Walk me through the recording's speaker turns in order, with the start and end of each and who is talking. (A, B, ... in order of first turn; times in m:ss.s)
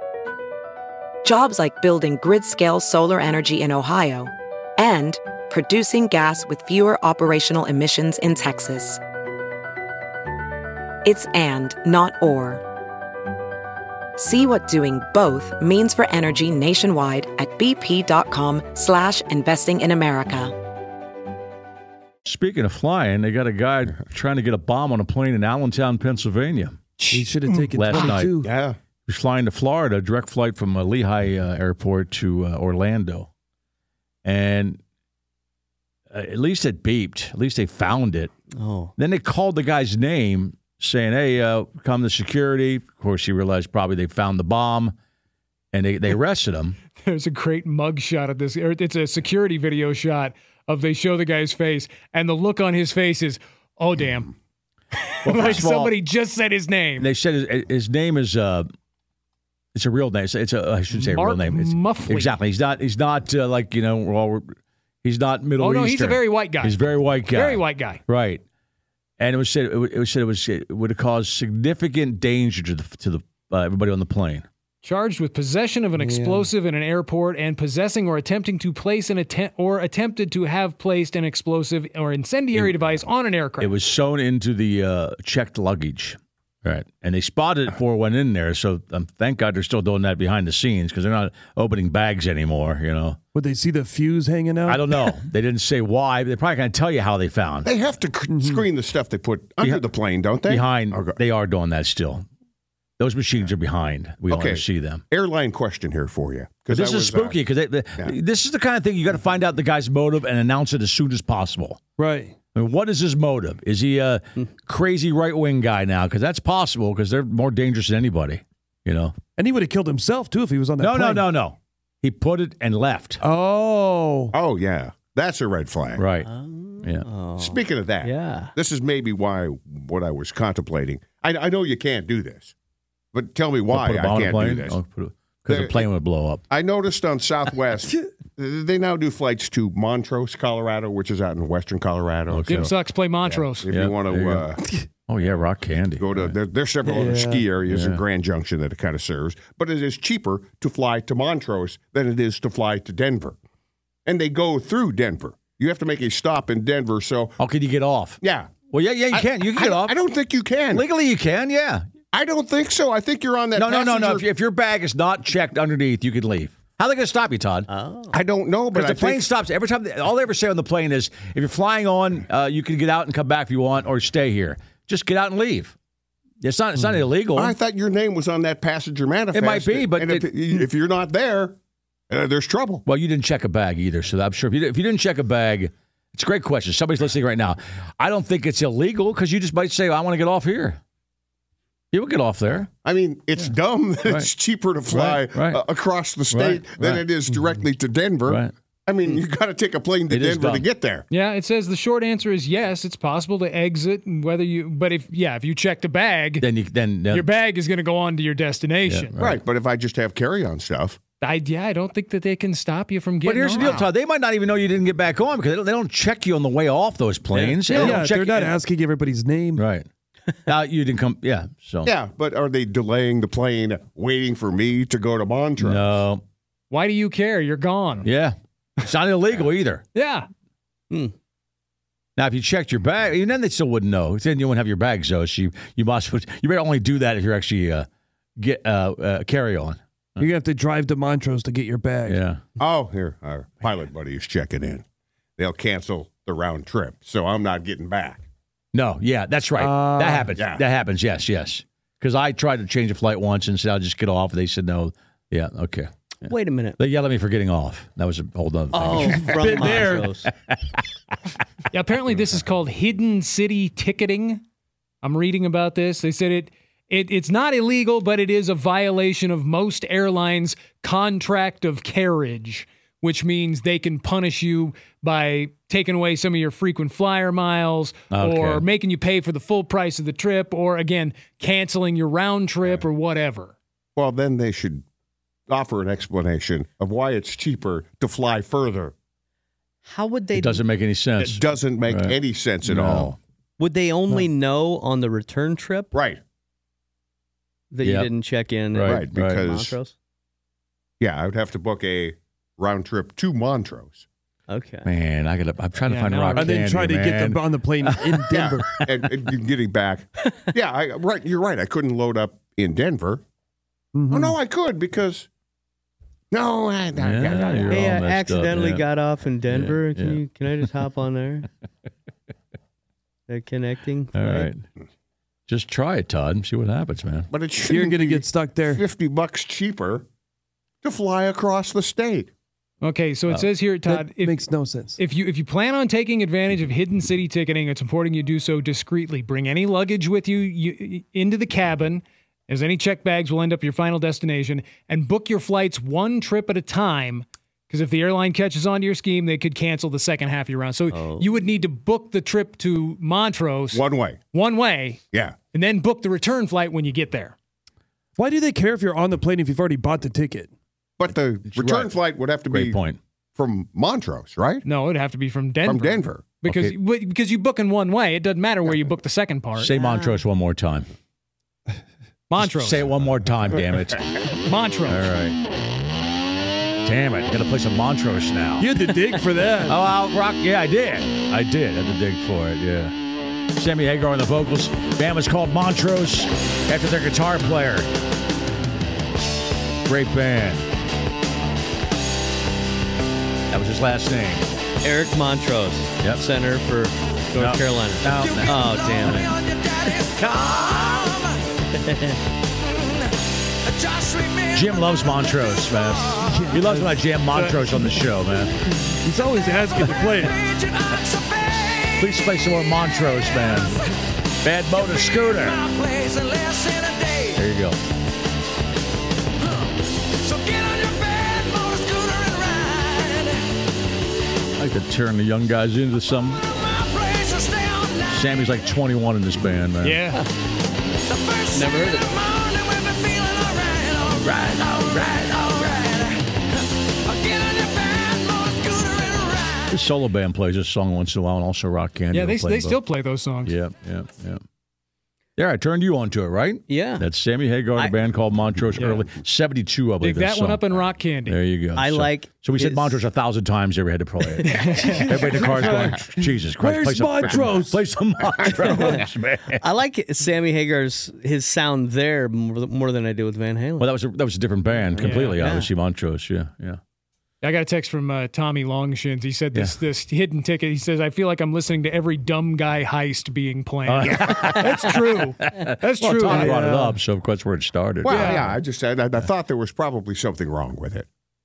0:01.2-0:09.0 A
0:11.0-0:12.6 A
0:14.2-0:20.5 A
0:22.2-0:26.8 B
0:27.0-0:27.2 C
0:27.1-0:28.5 D
0:27.8-0:28.3 B
0:28.4-0:28.8 E
0:29.1-0:33.3 B
0:34.2-0:34.8 B
0:36.1-0:38.3 B
0:38.6-0:38.9 F
0:39.0-0:44.9 B
0:45.7-0:46.8 B
0:47.0-0:54.3 C
0:55.0-0:57.1 C
0:55.2-0:55.9 B
0:57.0-0:58.7 B
0:59.8-1:04.5 B
1:00.9-1:02.4 C
1:05.0-1:08.4 B
1:05.6-1:08.0 C
1:09.2-1:14.5 B
1:14.8-1:23.7 C
1:16.0-1:16.5 D
1:22.5-1:22.9 B
1:23.6-1:33.2 B
1:33.3-1:35.0 D
1:34.7-1:37.7 B
1:37.6-1:41.2 E
1:38.3-1:38.6 D
1:40.4-1:42.2 B
1:43.0-1:45.0 B
1:44.3-1:48.2 E
1:46.7-1:51.8 B
1:52.0-1:52.3 D
1:52.6-1:59.2 B
1:59.4-2:01.3 D
2:00.8-2:03.2 B
2:03.2-2:04.3 D
2:04.3-2:06.1 E
2:06.0-2:06.3 B
2:06.2-2:08.5 F
2:07.4-2:12.5 E
2:13.1-2:14.8 E
2:13.7-2:16.4 B
2:15.5-2:15.9 E
2:16.5-2:24.6 E
2:22.3-2:22.7 B
2:22.5-2:23.7 C
2:23.7-2:24.5 B
2:25.1-2:26.4 B
2:26.0-2:33.4 E
2:26.8-2:27.5 D
2:27.7-2:28.0 B
2:34.1-2:37.4 E
2:37.4-2:40.0 B
2:38.2-2:38.5 E
2:39.1-2:40.9 E
2:40.7-2:41.9 B
2:42.1-2:44.3 E
2:43.6-2:47.7 B
2:47.7-2:48.2 F
2:48.1-2:49.3 E
2:48.7-2:55.8 B
2:56.4-2:57.6 B
2:57.3-3:01.6 E
2:59.3-3:00.4 B
3:02.1-3:02.8 E
3:02.9-3:10.8 B
3:11.9-3:12.7 B
3:12.8-3:21.1 E
3:14.0-3:14.3 B
3:14.9-3:15.6 B
3:16.3-3:17.1 B
3:18.2-3:18.5 B
3:20.1-3:20.7 B
3:21.1-3:26.5 C
3:26.4-3:27.3 B
3:27.1-3:29.1 C
3:28.9-3:29.4 B
3:29.2-3:31.0 E
3:31.2-3:33.9 C
3:33.2-3:38.5 B
3:33.6-3:33.9 E
3:37.3-3:38.0 F
3:37.7-3:39.6 D
3:39.6-3:39.9 B
3:40.5-3:42.0 B
3:41.8-3:46.0 E
3:45.6-3:46.2 B
3:46.7-3:48.1 C
3:48.0-3:49.8 B
3:50.0-3:50.3 C
3:52.2-3:57.9 B
3:58.4-4:00.3 B
4:00.2-4:02.2 D
4:02.1-4:02.4 B
4:02.6-4:04.8 E
4:05.4-4:08.2 E
4:08.7-4:19.9 B
4:09.6-4:10.3 D
4:10.3-4:10.6 E
4:16.2-4:16.8 F
4:18.7-4:20.3 F
4:18.9-4:20.2 D
4:21.7-4:24.4 C
4:25.0-4:43.5 C
4:38.1-4:38.6 B
4:44.0-4:44.8 E
4:45.5-4:48.9 E
4:49.8-4:50.6 F
4:50.3-4:53.2 B
4:51.2-4:53.2 E
4:53.6-4:55.9 F
4:55.9-4:56.2 E
4:57.7-4:59.9 F
4:57.8-4:58.2 B
4:58.7-4:59.5 B
4:58.8-4:59.8 E
5:01.0-5:04.1 E
5:04.5-5:04.9 F
5:04.8-5:08.2 B
5:05.8-5:06.6 C
5:06.4-5:08.9 D
5:08.3-5:13.2 E
5:13.9-5:14.4 D
5:14.1-5:15.3 E
5:16.3-5:17.8 E
5:17.0-5:20.3 B
5:17.6-5:21.5 F
5:23.3-5:24.5 F
5:24.1-5:24.6 B
5:25.5-5:27.3 B
5:27.3-5:30.1 E
5:27.7-5:28.8 D
5:30.8-5:32.3 E
5:32.8-5:55.0 C
5:33.8-5:35.0 D
5:50.9-5:51.3 F
5:53.7-5:54.2 E
5:55.5-5:57.4 C
5:58.2-6:00.5 D
6:01.0-6:02.8 E
6:01.1-6:03.0 B
6:03.4-6:04.7 E
6:04.6-6:09.8 C
6:05.6-6:06.2 E
6:06.4-6:06.8 B
6:09.6-6:10.9 B
6:09.8-6:10.2 F
6:12.3-6:12.9 C
6:12.4-6:14.1 B
6:14.5-6:15.1 C
6:14.9-6:15.4 B
6:16.8-6:18.7 B
6:18.6-6:19.8 D
6:19.6-6:22.9 B
6:23.5-6:27.9 B
6:29.8-6:30.7 B
6:33.5-6:34.5 B
6:34.8-6:40.4 F
6:36.0-6:36.4 B
6:37.4-6:39.4 B
6:40.2-6:41.0 B
6:41.9-6:42.1 F
6:43.9-6:44.5 F
6:44.5-6:48.5 B
6:46.2-6:48.1 D
6:48.8-6:50.4 D
6:49.8-6:51.9 F
6:52.0-6:53.8 B
6:54.4-6:55.6 B
6:55.0-6:57.3 F
6:57.4-6:57.8 B
7:00.2-7:03.3 F
7:04.6-7:06.4 B
7:06.9-7:08.0 F
7:08.1-7:10.1 B
7:09.8-7:10.2 C
7:11.2-7:14.1 F
7:14.1-7:15.8 B
7:14.6-7:16.1 F
7:17.1-7:19.5 F
7:19.7-7:22.8 B
7:22.1-7:23.6 C
7:23.4-7:24.4 B
7:25.4-7:39.6 B
7:26.7-7:27.1 F
7:28.8-7:29.0 C
7:30.0-7:31.4 C
7:31.8-7:33.0 F
7:34.3-7:34.8 F
7:34.4-7:35.4 C
7:34.8-7:37.9 D
7:38.5-7:43.9 F
7:43.8-7:46.8 B
7:45.0-7:45.7 F
7:45.0-7:45.4 C
7:47.4-7:56.6 C
7:53.8-7:58.6 B
7:56.2-7:57.0 D
7:58.0-8:01.1 E
7:58.1-7:58.5 C